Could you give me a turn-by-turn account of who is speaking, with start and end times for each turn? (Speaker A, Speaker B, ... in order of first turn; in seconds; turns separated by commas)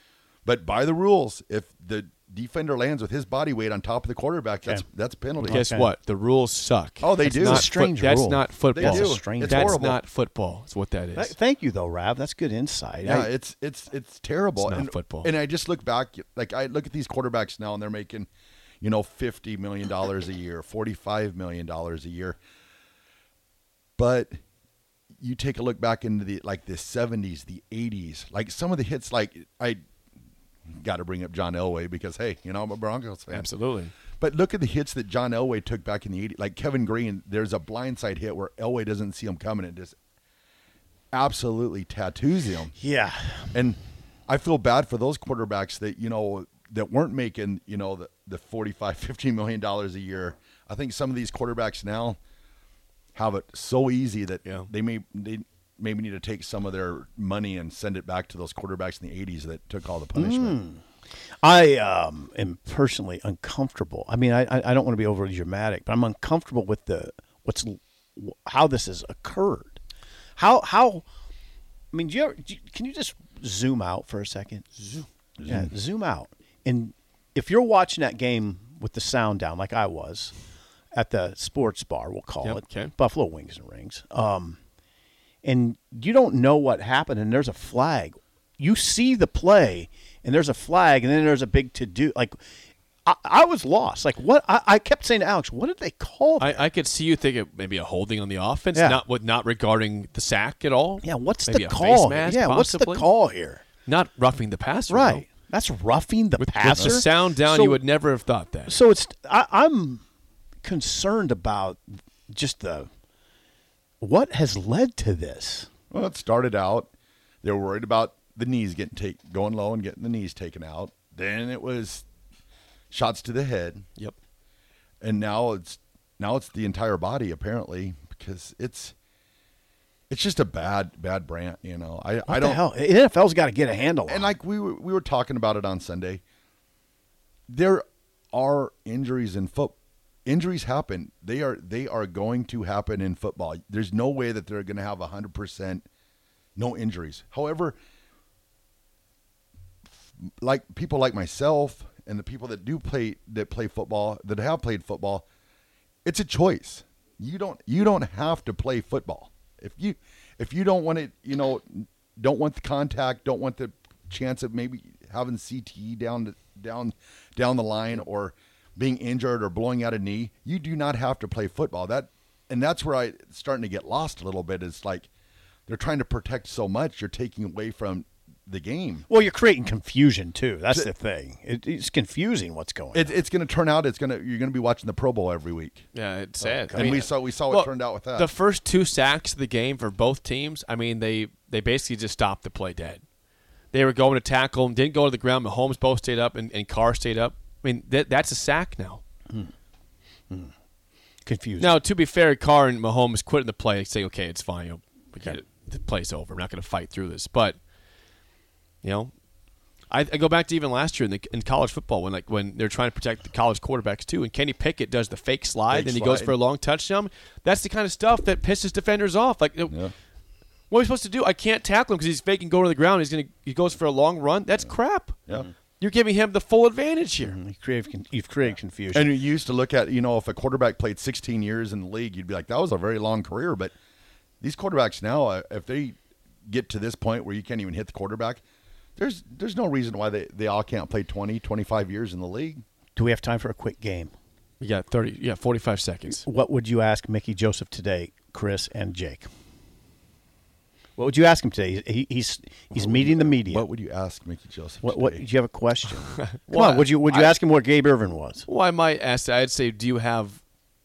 Speaker A: 0.4-5.6, Speaker B: 4.6-5.9, Speaker C: 5.5-11.3, Speaker A: 7.0-7.7, Speaker B: 7.2-9.8, Speaker A: 8.7-10.0, Speaker B: 11.1-13.3, Speaker A: 13.0-18.3, Speaker C: 14.6-15.3, Speaker A: 18.8-22.4, Speaker A: 24.0-24.3, Speaker A: 25.2-29.8, Speaker A: 30.8-33.5, Speaker C: 33.3-33.9, Speaker A: 34.2-39.9, Speaker A: 41.1-42.8, Speaker B: 42.8-43.5, Speaker A: 43.5-52.2, Speaker A: 53.1-60.6, Speaker B: 60.1-60.8, Speaker B: 61.4-69.8, Speaker B: 70.4-71.0, Speaker B: 71.9-74.8, Speaker A: 75.4-75.7, Speaker B: 75.5-80.3, Speaker B: 80.9-84.6, Speaker C: 82.4-82.9, Speaker B: 85.4-92.4, Speaker B: 93.0-96.7, Speaker C: 96.4-103.1, Speaker B: 98.7-99.0, Speaker B: 101.0-103.6, Speaker C: 103.8-105.2, Speaker B: 104.9-107.8, Speaker C: 106.3-108.8, Speaker B: 108.7-110.0, Speaker B: 110.6-112.9, Speaker B: 114.0-115.7, Speaker A: 115.9-116.9, Speaker A: 117.4-122.0, Speaker A: 122.9-123.8, Speaker A: 125.0-128.9, Speaker A: 130.1-132.6, Speaker B: 132.3-134.3, Speaker A: 134.1-136.2, Speaker A: 137.5-139.7, Speaker A: 140.2-145.8, Speaker A: 146.6-147.8, Speaker A: 150.4-155.2, Speaker A: 156.0-175.1, Speaker A: 175.7-179.1, Speaker B: 179.1-183.2, Speaker A: 182.9-185.8, Speaker C: 185.9-193.0, Speaker B: 186.4-187.1, Speaker A: 186.7-188.3, Speaker C: 193.7-199.0, Speaker B: 201.2-201.8, Speaker C: 201.6-207.6, Speaker C: 208.8-209.1, Speaker C: 209.9-219.8, Speaker A: 215.7-216.4, Speaker A: 219.7-219.9, Speaker C: 220.7-225.2, Speaker C: 225.8-227.4, Speaker B: 227.2-229.1, Speaker A: 228.9-233.7, Speaker A: 234.4-235.9, Speaker A: 236.5-238.4, Speaker A: 239.0-242.6, Speaker B: 242.9-244.1, Speaker C: 244.6-246.2, Speaker B: 246.1-249.3, Speaker B: 251.0-253.7, Speaker A: 252.7-255.3, Speaker B: 254.8-258.4, Speaker C: 256.2-257.4, Speaker C: 258.4-260.4